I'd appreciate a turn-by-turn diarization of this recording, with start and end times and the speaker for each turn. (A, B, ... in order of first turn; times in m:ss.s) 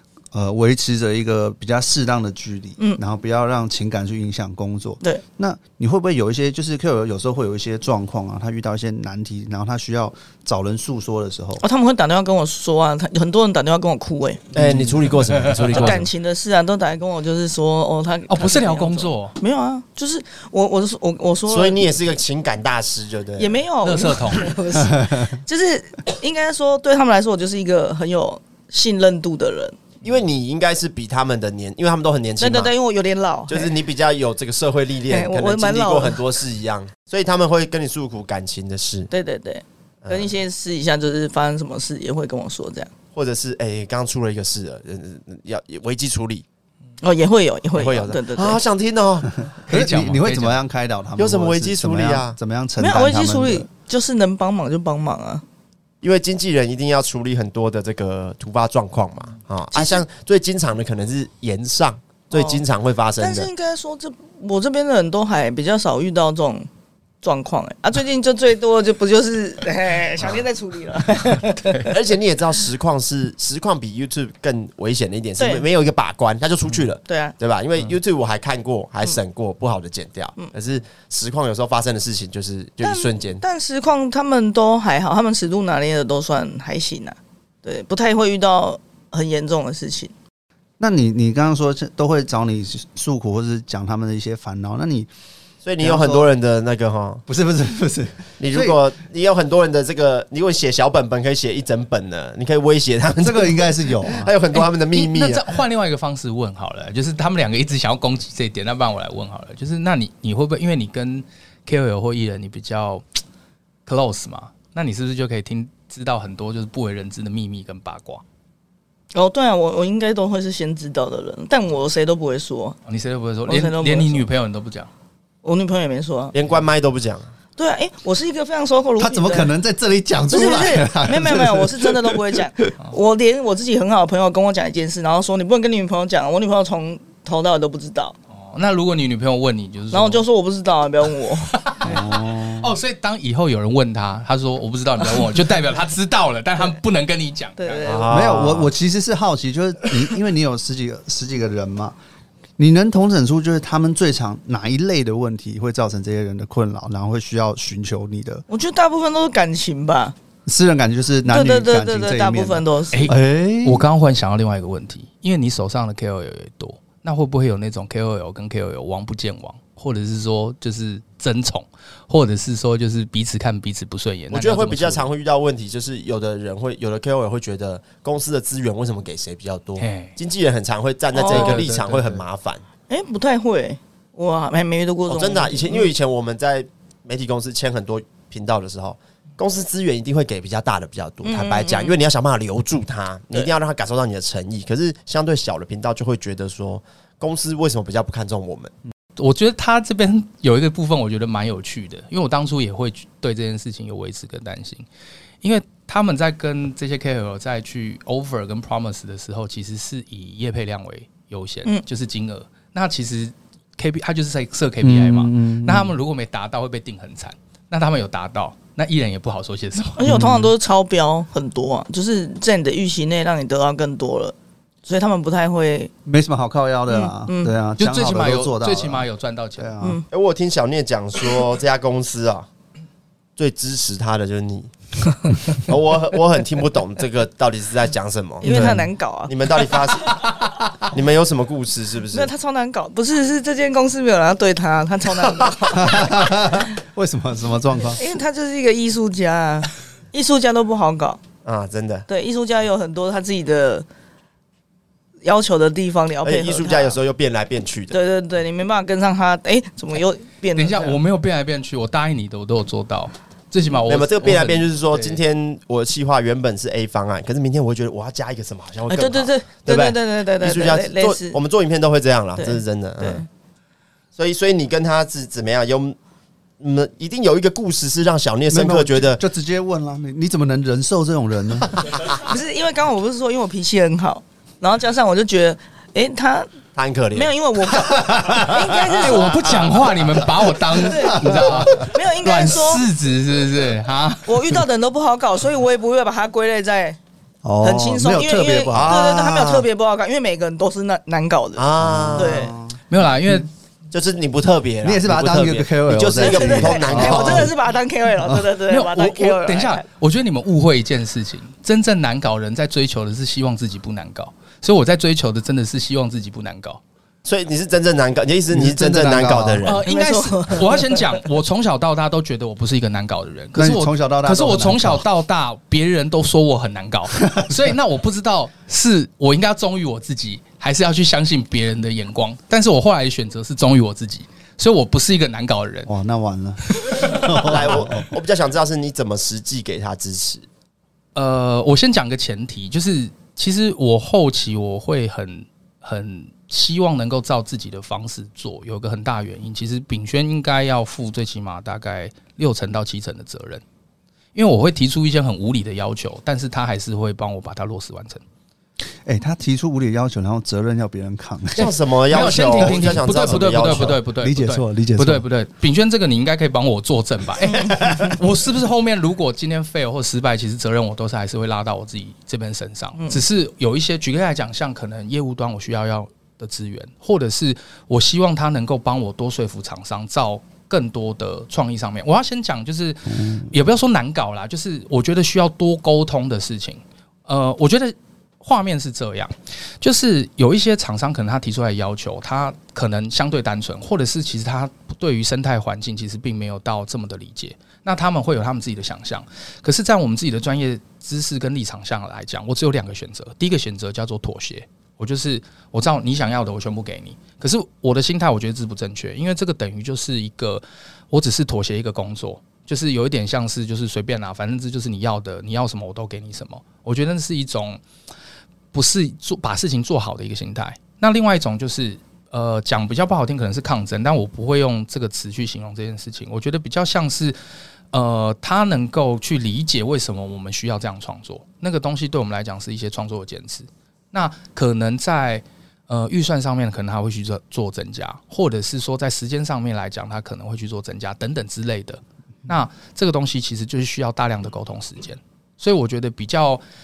0:00.3-0:11.6 A
0:11.6-0:14.4 B
0:14.6-0:14.9 A
0:14.6-0:16.1 C
0:15.3-0:16.0 D
0:15.7-0:21.8 B
0:18.3-0:19.4 D
0:21.5-0:23.6 C
0:23.4-0:29.8 B
0:23.8-0:24.5 D
0:30.0-0:32.7 C
0:32.4-0:33.7 B
0:33.5-0:39.1 C
0:35.1-0:36.2 B
0:39.1-0:42.9 B
0:40.0-0:40.3 C
0:43.1-0:46.4 C
0:47.0-0:48.6 B
0:47.8-0:49.4 C
0:49.5-0:53.7 A
0:49.7-0:50.6 D
0:51.2-0:52.4 C
0:52.8-0:55.4 B
0:56.0-1:03.5 C
0:59.7-1:00.0 B
1:02.3-1:02.6 B
1:03.2-1:06.7 B
1:07.2-1:11.9 B
1:11.8-1:23.4 C
1:15.4-1:15.6 B
1:17.1-1:17.4 B
1:22.8-1:30.1 B
1:30.8-1:35.1 A
1:35.6-1:37.2 C
1:35.8-1:36.3 A
1:37.3-1:38.8 A
1:38.4-1:45.5 C
1:43.2-1:44.3 A
1:44.5-1:53.0 D
1:53.9-1:58.2 D
1:59.1-2:02.8 B
2:02.9-2:04.9 D
2:03.5-2:04.2 B
2:05.4-2:06.4 B
2:06.3-2:07.3 C
2:07.6-2:09.5 B
2:09.0-2:12.7 A
2:10.3-2:18.2 B
2:18.3-2:20.3 D
2:19.9-2:21.5 B
2:21.5-2:27.9 D
2:21.8-2:22.7 A
2:27.6-2:28.1 B
2:27.8-2:28.7 C
2:28.1-2:32.0 A
2:32.6-2:38.4 A
2:38.5-2:40.2 B
2:40.5-2:43.8 A
2:41.3-2:43.1 B
2:42.9-2:55.1 D
2:54.3-3:02.6 C
2:59.8-3:00.2 D
3:01.1-3:01.6 B
3:01.3-3:02.2 D
3:02.9-3:05.9 B
3:05.1-3:18.7 C
3:11.2-3:12.0 B
3:19.2-3:24.8 D
3:25.4-3:40.1 D
3:34.8-3:36.0 A
3:40.0-3:45.9 B
3:40.0-3:40.5 A
3:46.1-3:50.0 A
3:46.9-3:47.6 B
3:47.8-3:49.8 D
3:50.1-3:52.5 C
3:53.4-3:54.7 C
3:55.5-3:58.6 C
3:58.4-3:59.6 B
3:58.4-3:58.8 A
3:59.3-4:02.3 C
4:02.1-4:06.6 B
4:05.4-4:05.7 C
4:05.7-4:08.0 A
4:07.9-4:11.2 B
4:11.4-4:12.1 C
4:12.1-4:13.9 B
4:15.2-4:17.0 B
4:16.2-4:18.0 C
4:17.9-4:21.0 B
4:20.6-4:25.2 D
4:23.9-4:33.2 C
4:28.9-4:31.4 B
4:32.4-4:33.3 B
4:34.2-4:36.0 C
4:36.6-4:39.2 C
4:38.5-4:41.7 A
4:42.2-4:46.5 B
4:46.8-4:47.3 C
4:47.1-4:49.4 B
4:47.8-4:48.5 A
4:48.4-4:54.6 D
4:49.2-4:50.3 A
4:50.8-4:52.8 B
4:50.9-4:51.9 A
4:54.3-4:57.0 B
4:57.4-4:59.0 A
4:57.6-5:01.6 B
4:58.7-4:59.7 C
5:01.6-5:02.5 C
5:01.8-5:02.8 A
5:02.2-5:02.6 B
5:02.9-5:03.5 D
5:03.9-5:07.5 C
5:04.8-5:07.5 A
5:06.2-5:09.8 B
5:08.7-5:16.8 D
5:17.2-5:19.8 C
5:18.5-5:19.6 A
5:19.6-5:35.9 D
5:19.8-5:21.2 B
5:23.6-5:25.0 A
5:35.9-5:38.1 A
5:36.7-5:37.6 D
5:37.4-5:40.5 C
5:41.2-5:53.6 D
5:54.4-5:58.2 D
5:59.1-6:01.8 A
6:01.6-6:04.0 C
6:02.1-6:57.8 D
6:02.6-6:05.2 A
6:07.5-6:07.8 B
6:58.7-7:07.4 D
7:07.9-7:26.6 D